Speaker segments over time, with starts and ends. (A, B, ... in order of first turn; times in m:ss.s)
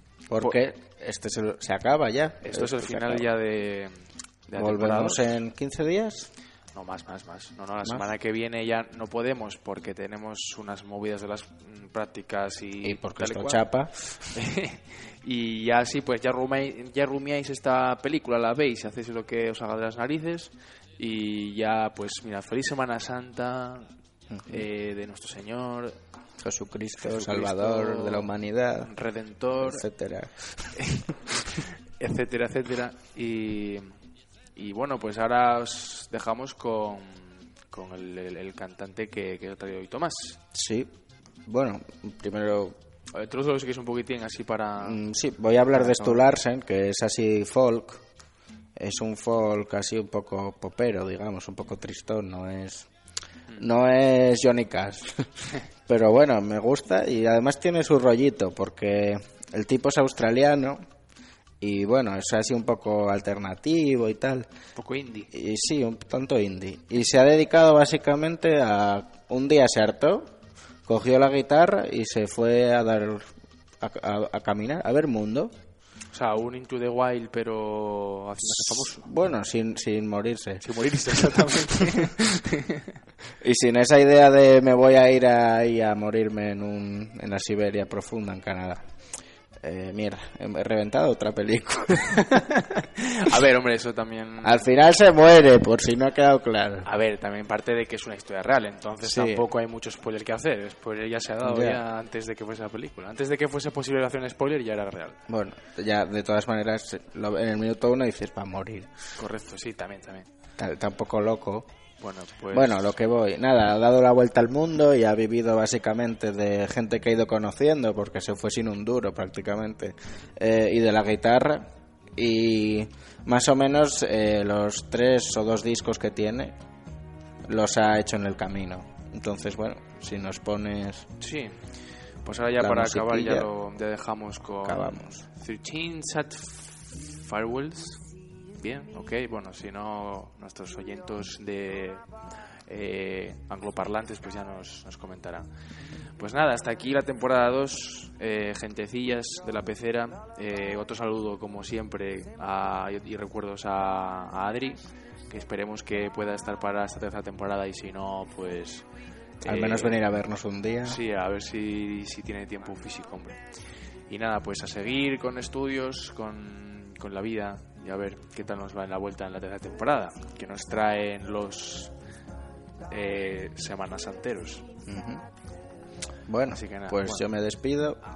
0:00.3-0:03.3 A
0:02.4-0:05.4 B
0:04.6-0:06.3 A
0:06.7-0:23.9 B
0:12.8-0:14.2 A
0:24.3-0:24.6 A
0:24.5-0:26.0 B
0:26.4-0:28.9 A
0:27.0-0:29.9 B
0:29.6-0:30.8 A
0:30.8-0:34.0 B
0:34.6-0:40.4 B
0:40.5-0:40.9 A
0:41.5-0:42.8 A
0:43.1-0:45.0 B
0:44.8-0:48.0 A
0:45.7-0:46.2 B
0:48.8-0:52.9 A
0:53.6-1:00.8 A
1:01.6-1:04.5 A
1:04.8-1:05.3 B
1:05.3-1:10.3 A
1:10.9-1:13.3 A
1:13.8-1:15.5 A
1:16.1-1:19.1 B
1:18.5-1:22.1 A
1:20.6-1:22.9 B
1:23.4-1:28.9 A
1:29.6-1:32.5 A
1:32.4-1:34.7 B
1:34.4-1:36.9 A
1:36.8-1:45.2 B
1:39.0-1:39.4 A
1:41.4-1:41.8 A
1:45.3-1:48.9 A
1:49.2-1:50.3 B
1:50.6-1:51.7 A
1:52.0-1:52.9 B
1:52.5-2:06.6 A
2:07.5-2:11.1 A
2:11.2-2:25.5 B
2:12.6-2:13.5 A
2:14.6-2:15.3 A
2:26.0-2:38.9 B
2:39.4-2:40.1 B
2:39.4-2:41.0 A
2:40.8-2:43.5 B
2:44.1-2:51.9 B
2:52.9-2:54.7 B
2:54.9-2:55.2 A
2:56.3-2:58.0 A
2:56.5-2:57.3 B